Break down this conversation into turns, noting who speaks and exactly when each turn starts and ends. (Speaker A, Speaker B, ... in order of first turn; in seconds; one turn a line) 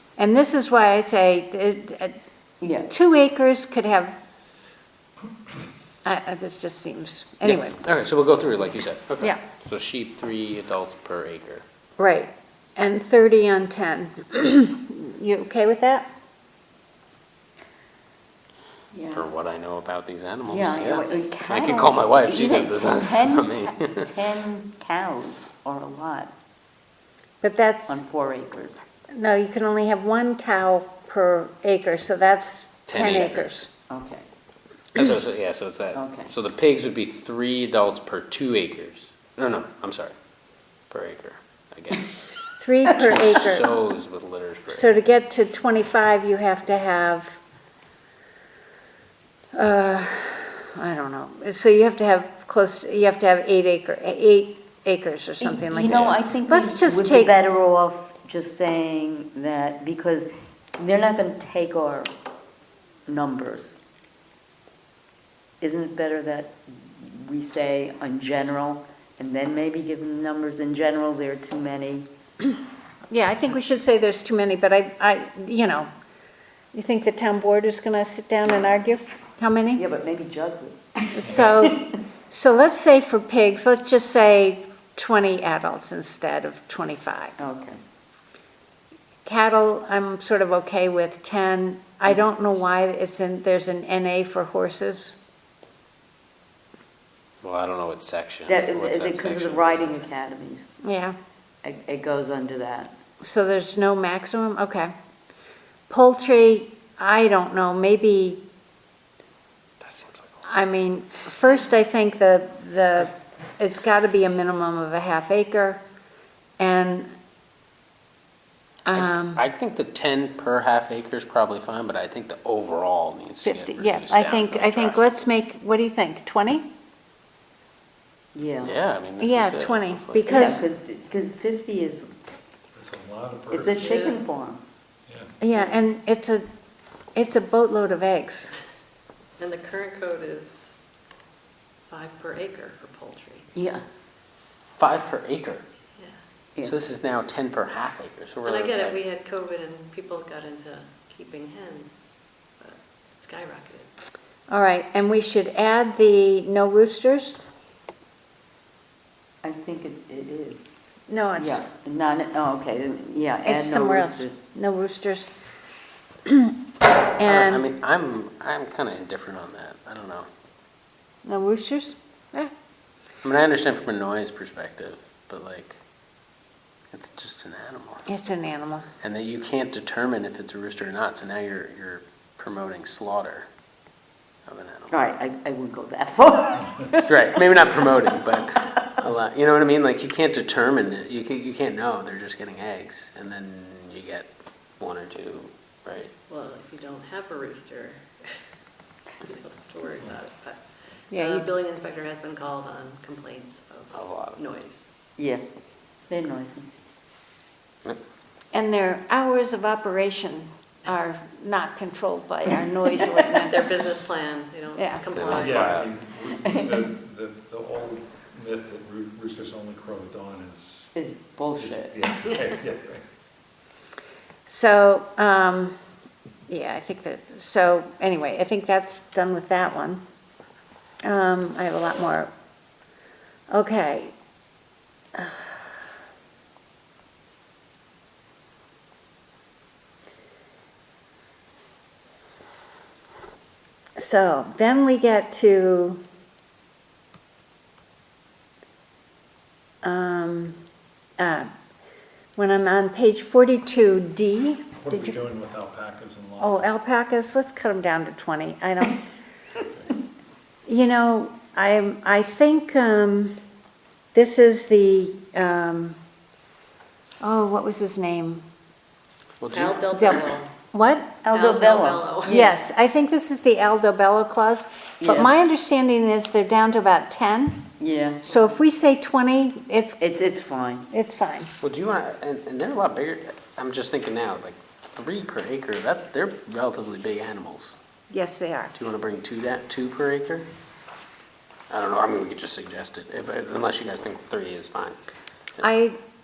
Speaker A: 0.2-2.1
Speaker B: 2.6-2.9
Speaker A: 2.9-4.1
Speaker A: 6.0-7.8
Speaker C: 7.4-11.6
Speaker A: 12.0-16.1
Speaker B: 18.9-19.3
Speaker C: 19.1-24.0
Speaker B: 20.5-26.3
Speaker A: 27.4-28.0
Speaker B: 27.9-28.8
Speaker A: 29.1-33.7
Speaker C: 32.9-33.5
Speaker B: 33.9-34.2
Speaker C: 34.9-40.1
Speaker B: 35.9-36.3
Speaker C: 40.9-42.0
Speaker A: 42.6-43.7
Speaker C: 43.0-45.0
Speaker A: 44.7-47.4
Speaker A: 49.5-57.3
Speaker B: 55.4-62.1
Speaker B: 63.1-63.7
Speaker B: 65.6-72.1
Speaker A: 73.1-75.9
Speaker A: 76.7-79.8
Speaker B: 79.8-81.9
Speaker A: 81.1-87.3
Speaker B: 87.4-87.8
Speaker A: 89.2-95.2
Speaker C: 97.4-100.0
Speaker B: 98.5-100.7
Speaker A: 100.8-101.1
Speaker B: 101.6-102.9
Speaker A: 103.2-104.9
Speaker A: 105.9-108.4
Speaker C: 109.8-110.3
Speaker A: 110.4-115.8
Speaker A: 116.6-117.1
Speaker A: 118.8-119.4
Speaker C: 118.9-125.2
Speaker A: 123.4-126.7
Speaker B: 128.3-128.7
Speaker C: 128.6-130.4
Speaker A: 129.2-130.6
Speaker B: 130.2-132.1
Speaker D: 132.7-134.1
Speaker B: 133.5-134.6
Speaker E: 133.8-134.2
Speaker D: 135.1-135.3
Speaker A: 135.4-136.4
Speaker A: 137.2-138.5
Speaker E: 139.4-140.7
Speaker E: 141.9-143.5
Speaker B: 143.5-143.8
Speaker C: 144.8-145.6
Speaker C: 146.6-149.0
Speaker E: 148.4-152.0
Speaker E: 152.6-153.9
Speaker A: 154.5-157.4
Speaker B: 159.4-160.7
Speaker A: 161.1-161.7
Speaker B: 161.4-164.4
Speaker A: 163.4-165.3
Speaker A: 167.2-167.6
Speaker C: 167.2-170.3
Speaker A: 171.2-172.5
Speaker C: 173.2-175.8
Speaker C: 176.9-178.1
Speaker A: 178.1-178.9
Speaker C: 179.0-183.5
Speaker C: 184.4-184.9
Speaker B: 184.9-187.3
Speaker C: 187.1-194.3
Speaker C: 194.8-196.1
Speaker E: 196.3-198.4
Speaker E: 199.2-205.1
Speaker A: 201.1-201.5
Speaker C: 203.9-204.4
Speaker B: 205.2-205.4
Speaker B: 206.1-206.7
Speaker A: 208.5-213.9
Speaker E: 213.2-215.9
Speaker A: 214.7-215.1
Speaker C: 215.1-215.9
Speaker D: 215.3-220.9
Speaker B: 216.4-216.8
Speaker B: 220.9-221.9
Speaker D: 221.6-223.0
Speaker A: 224.5-225.8
Speaker A: 226.5-230.0
Speaker A: 231.0-232.3
Speaker A: 233.5-234.1
Speaker A: 235.2-235.6
Speaker A: 244.0-246.0
Speaker A: 249.8-250.6
Speaker A: 251.2-251.5
Speaker A: 252.3-255.2
Speaker D: 254.8-256.8
Speaker A: 256.4-259.0
Speaker A: 260.6-263.4
Speaker A: 264.1-266.0
Speaker A: 267.2-268.4
Speaker C: 269.4-269.8
Speaker E: 269.5-270.5
Speaker A: 269.9-271.2
Speaker B: 271.2-272.6
Speaker E: 271.3-272.3
Speaker A: 272.3-277.6
Speaker B: 275.0-275.3
Speaker B: 277.8-278.2
Speaker A: 278.2-280.0
Speaker B: 280.0-280.9
Speaker A: 280.9-281.5
Speaker C: 281.6-287.8
Speaker A: 288.1-288.7
Speaker C: 288.7-290.5
Speaker C: 291.7-295.0
Speaker A: 295.6-296.0